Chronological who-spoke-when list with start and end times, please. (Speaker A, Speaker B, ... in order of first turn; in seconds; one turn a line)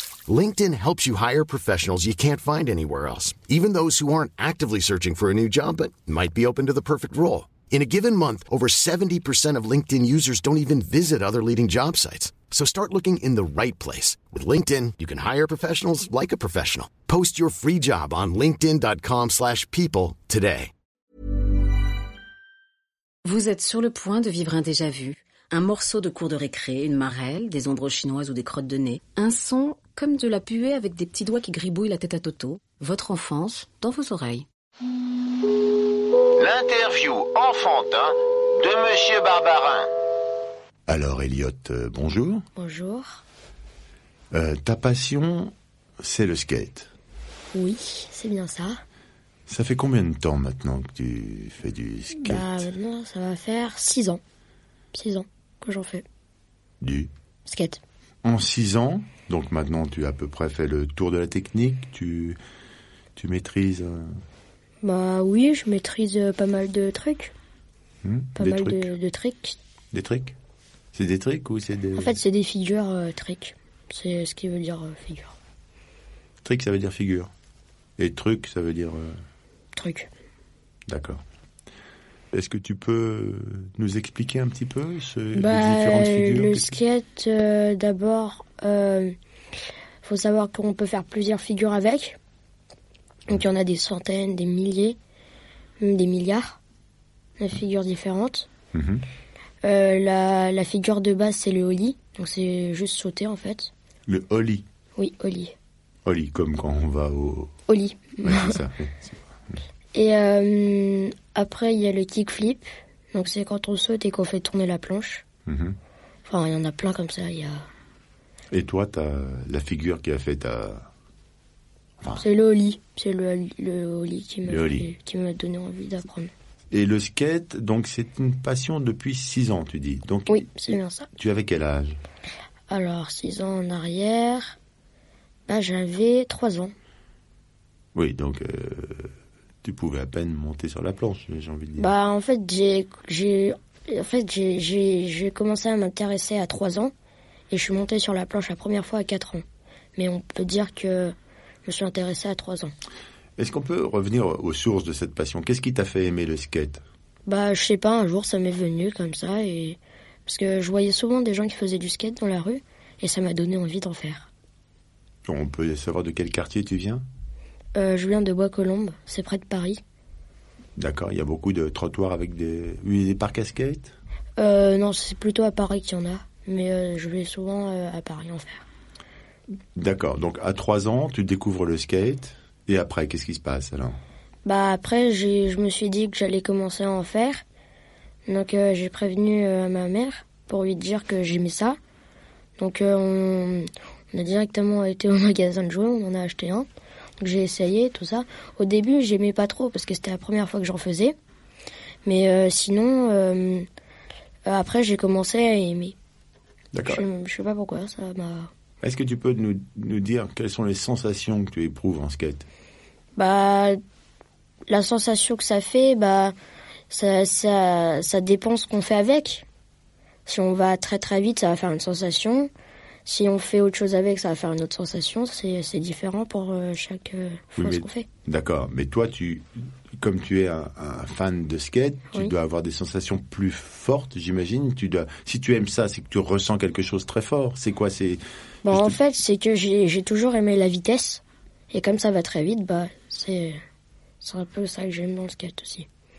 Speaker A: 0.3-20.7
Speaker B: 23.2-34.5
Speaker C: 36.4-39.9
Speaker D: 40.9-42.4
Speaker E: 42.5-43.2
Speaker D: 44.3-46.9
Speaker E: 47.5-48.8
Speaker D: 49.5-52.7
Speaker E: 52.2-54.2
Speaker E: 54.9-56.0
Speaker D: 56.8-57.1
Speaker E: 57.5-57.8
Speaker D: 58.2-62.4
Speaker D: 63.1-64.1
Speaker E: 64.8-67.3
Speaker D: 68.0-68.9
Speaker E: 68.4-69.6
Speaker D: 69.9-70.3
Speaker D: 70.9-72.2
Speaker E: 71.9-75.3
Speaker D: 76.4-77.3
Speaker D: 78.0-79.2
Speaker E: 79.8-80.1
Speaker D: 80.9-81.2
Speaker D: 82.3-86.8
Speaker E: 85.3-89.1
Speaker E: 90.0-92.2
Speaker E: 93.3-95.0
Speaker E: 95.8-96.6
Speaker E: 97.4-98.5
Speaker D: 98.7-99.0
Speaker E: 99.6-103.7
Speaker D: 104.1-104.6
Speaker E: 105.0-105.5
Speaker D: 106.0-107.5
Speaker E: 107.7-108.6
Speaker D: 108.2-109.2
Speaker E: 109.9-115.2
Speaker D: 115.5-115.8
Speaker E: 116.2-117.7
Speaker D: 118.5-120.9
Speaker E: 122.2-126.3
Speaker D: 124.4-124.9
Speaker D: 126.7-130.5
Speaker E: 130.3-131.1
Speaker D: 131.2-132.0
Speaker E: 132.7-134.6
Speaker E: 135.5-136.7
Speaker D: 137.9-139.1
Speaker D: 139.6-141.9
Speaker E: 141.8-146.9
Speaker E: 147.5-149.4
Speaker E: 149.9-152.7
Speaker D: 153.4-156.8
Speaker E: 157.3-164.3
Speaker D: 165.2-167.0
Speaker E: 167.7-169.8
Speaker D: 170.8-173.9
Speaker E: 174.4-178.7
Speaker D: 179.8-184.0
Speaker E: 184.4-187.4
Speaker E: 188.3-191.8
Speaker E: 192.6-196.7
Speaker E: 197.2-201.1
Speaker E: 202.0-203.7
Speaker E: 204.4-205.9
Speaker D: 206.7-207.0
Speaker E: 206.8-208.5
Speaker D: 208.8-212.5
Speaker E: 213.2-213.8
Speaker E: 214.7-216.3
Speaker E: 216.9-219.4
Speaker E: 220.2-222.5
Speaker E: 223.0-228.1
Speaker D: 227.6-239.0
Speaker E: 238.6-243.6
Speaker E: 244.2-245.9